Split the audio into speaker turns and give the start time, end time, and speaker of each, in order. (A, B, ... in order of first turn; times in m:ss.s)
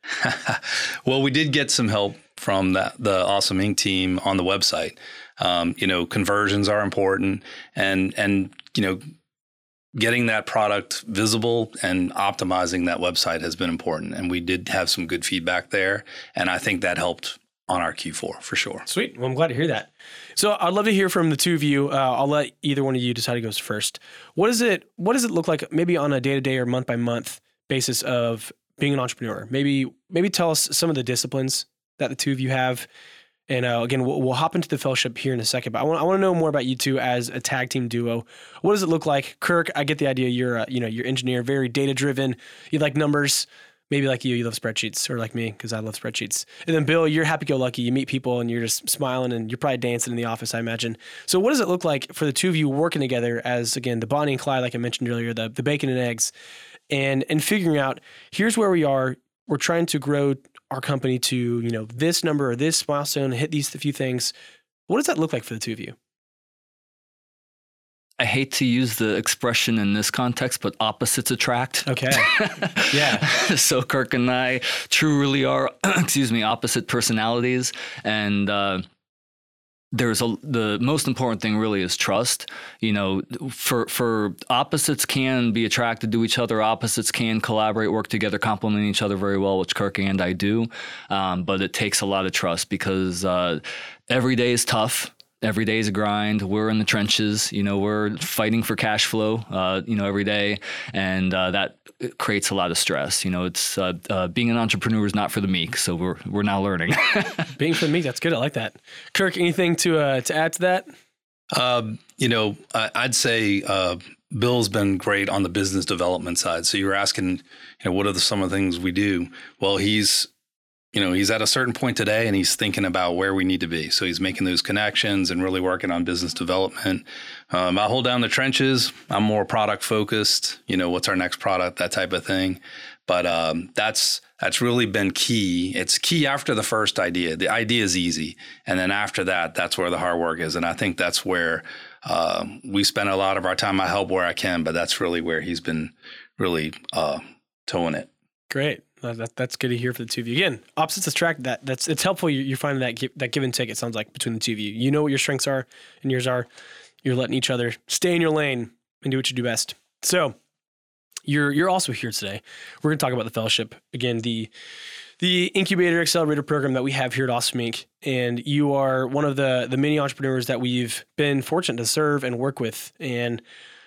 0:00.2-0:09.0 A
0:10.0-0:18.9 A
0:18.9-0:32.9 B
0:33.5-0:56.3 B
0:56.9-1:04.3 B
1:04.9-1:06.0 B
1:08.2-1:18.8 C
1:11.9-1:12.3 B
1:12.9-1:13.3 B
1:19.9-1:47.5 C
1:47.6-1:50.9 B
1:51.5-2:00.3 A
2:00.9-2:28.1 A
2:28.5-2:36.5 B
2:37.0-2:40.4 B
2:41.3-2:44.5 B
2:45.2-2:53.4 B